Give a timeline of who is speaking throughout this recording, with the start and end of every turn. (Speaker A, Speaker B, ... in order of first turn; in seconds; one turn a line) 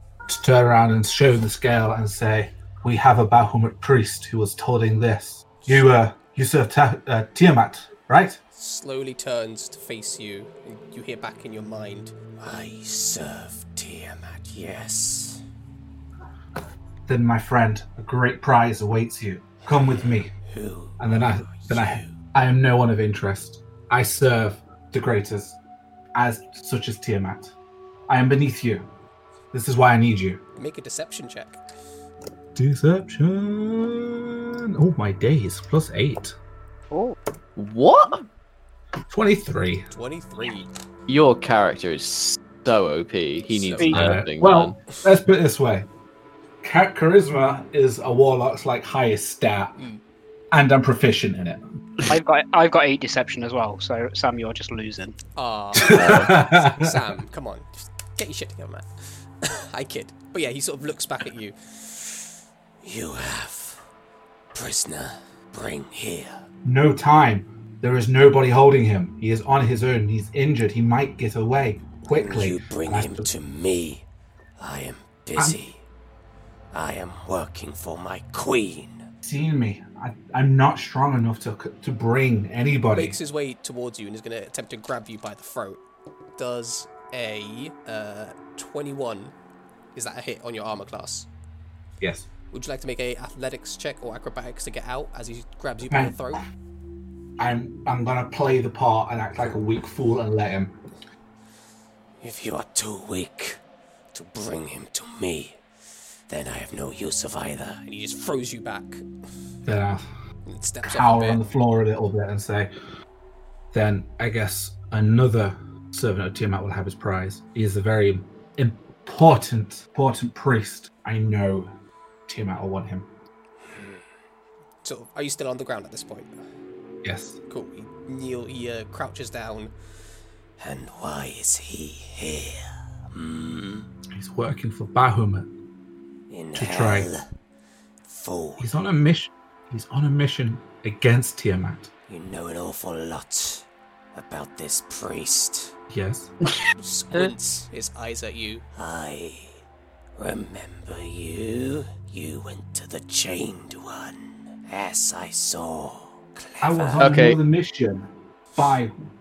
Speaker A: 0.3-8.4
Speaker B: 5.6-5.9
Speaker B: 8.5-12.2
Speaker C: 12.4-15.4
Speaker A: 17.1-20.3
Speaker C: 19.7-22.1
Speaker A: 21.0-25.6
Speaker A: 26.1-27.5
Speaker A: 28.1-28.9
Speaker A: 29.5-30.4
Speaker B: 30.6-31.6
Speaker A: 32.5-36.3
Speaker D: 36.9-37.2
Speaker E: 37.5-38.2
Speaker A: 39.1-39.9
Speaker B: 39.9-40.7
Speaker E: 41.1-44.8
Speaker B: 43.5-44.0
Speaker D: 43.8-44.2
Speaker A: 43.9-45.9
Speaker A: 46.6-49.8
Speaker A: 50.5-52.1
Speaker D: 52.1-55.1
Speaker B: 55.4-62.2
Speaker A: 55.8-57.0
Speaker E: 55.9-56.3
Speaker C: 62.8-63.8
Speaker C: 64.5-66.4
Speaker A: 66.6-73.3
Speaker C: 72.1-74.0
Speaker C: 74.6-75.8
Speaker C: 76.7-79.0
Speaker A: 79.2-83.2
Speaker B: 82.9-85.8
Speaker B: 86.4-89.3
Speaker B: 89.9-91.3
Speaker A: 92.0-92.3
Speaker B: 92.5-96.5
Speaker A: 95.9-96.4
Speaker A: 97.4-100.8
Speaker C: 102.2-103.6
Speaker C: 104.1-105.6
Speaker C: 106.3-107.8
Speaker B: 107.8-109.0
Speaker A: 109.6-110.0
Speaker B: 110.5-111.4
Speaker A: 110.8-112.7
Speaker A: 113.7-121.7
Speaker A: 122.3-123.1
Speaker C: 123.7-124.0
Speaker B: 124.8-126.3
Speaker A: 127.0-127.4
Speaker B: 127.5-129.7
Speaker C: 130.6-132.6
Speaker C: 133.1-133.9
Speaker A: 134.1-135.5
Speaker C: 136.3-137.2
Speaker A: 136.5-137.1
Speaker C: 138.0-138.7
Speaker A: 138.6-141.9
Speaker C: 142.1-145.7
Speaker A: 145.9-146.3
Speaker B: 146.8-148.6
Speaker C: 148.8-149.6
Speaker C: 150.2-157.1
Speaker A: 156.6-158.9
Speaker E: 157.0-157.4